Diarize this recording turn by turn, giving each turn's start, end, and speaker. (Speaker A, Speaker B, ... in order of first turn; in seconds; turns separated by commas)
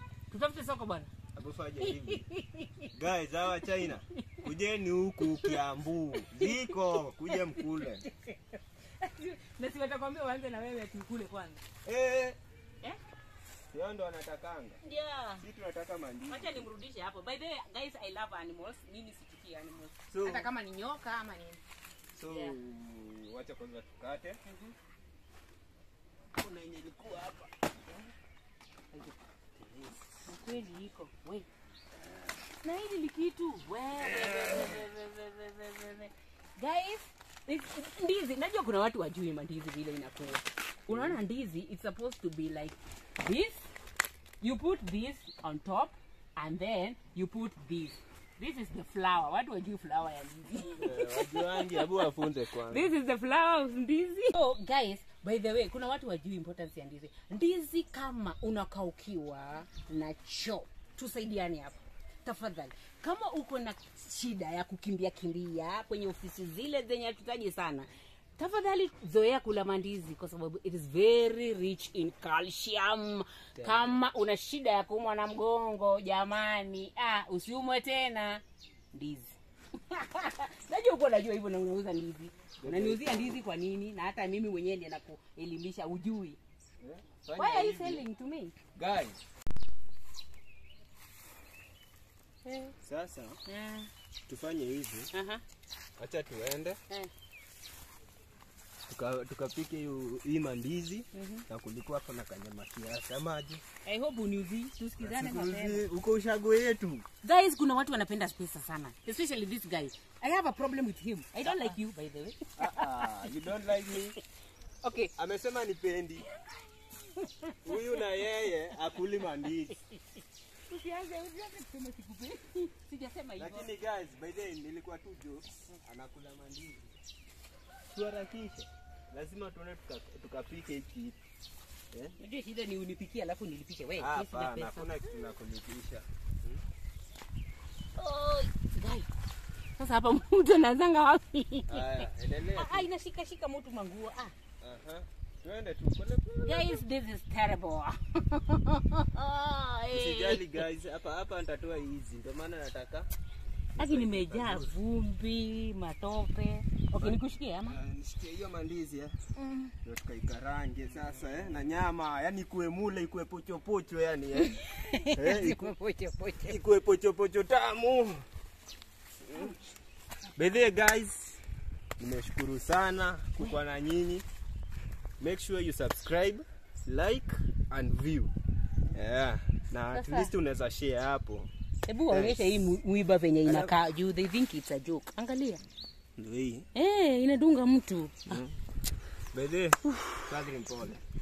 Speaker A: 0.3-1.1, Speaker B: 1.3-2.2, Speaker A: 1.8-2.9, Speaker B: 2.9-8.1, Speaker A: 3.6-4.4, Speaker A: 5.2-5.6, Speaker A: 6.1-11.6, Speaker B: 11.8-12.4, Speaker B: 13.7-14.8, Speaker A: 14.8-15.4, Speaker B: 15.4-16.7, Speaker A: 16.3-21.6, Speaker B: 20.1-20.5, Speaker B: 22.1-24.4, Speaker A: 22.3-22.6, Speaker A: 24.4-24.7, Speaker B: 26.4-28.1, Speaker B: 29.5-30.3, Speaker A: 30.3-31.5, Speaker A: 32.6-43.7, Speaker B: 34.0-34.9, Speaker B: 40.9-41.2, Speaker A: 44.4-86.4, Speaker B: 50.8-52.9, Speaker B: 73.5-74.0, Speaker B: 82.6-83.4, Speaker B: 86.8-88.0, Speaker A: 87.3-88.5, Speaker B: 88.7-89.2, Speaker A: 92.4-92.7, Speaker B: 92.8-93.4, Speaker A: 93.5-93.9, Speaker B: 94.3-95.1, Speaker A: 95.1-95.4, Speaker B: 96.0-96.8, Speaker B: 98.9-103.6, Speaker A: 101.1-101.5, Speaker A: 103.8-105.8, Speaker B: 105.0-107.0, Speaker A: 107.2-113.3, Speaker B: 111.4-111.7, Speaker B: 112.6-114.2, Speaker A: 114.8-115.1, Speaker B: 115.2-116.2, Speaker A: 116.3-118.0, Speaker B: 117.6-119.7, Speaker A: 120.7-123.7, Speaker B: 123.4-126.9, Speaker B: 127.9-131.2, Speaker B: 131.9-132.2, Speaker A: 132.2-135.1, Speaker B: 134.0-136.6, Speaker A: 137.9-139.1, Speaker A: 139.8-144.3, Speaker B: 141.7-142.9, Speaker B: 144.6-146.8, Speaker A: 146.4-150.6, Speaker B: 149.9-153.1, Speaker B: 153.8-154.7, Speaker A: 153.8-157.8, Speaker B: 156.9-159.2, Speaker A: 159.3-159.7, Speaker B: 159.8-164.6, Speaker A: 164.4-166.6, Speaker B: 165.1-165.7, Speaker B: 166.4-168.2, Speaker B: 169.2-169.6, Speaker A: 169.3-169.6, Speaker B: 170.3-171.4, Speaker A: 170.4-170.7, Speaker B: 172.0-174.2, Speaker B: 175.2-178.3, Speaker B: 178.9-181.5, Speaker A: 179.9-180.3, Speaker A: 181.9-185.6, Speaker B: 182.1-182.7, Speaker B: 183.4-183.7, Speaker B: 186.2-186.7, Speaker A: 186.7-188.4, Speaker B: 188.3-188.6, Speaker B: 189.3-191.0, Speaker A: 189.8-190.2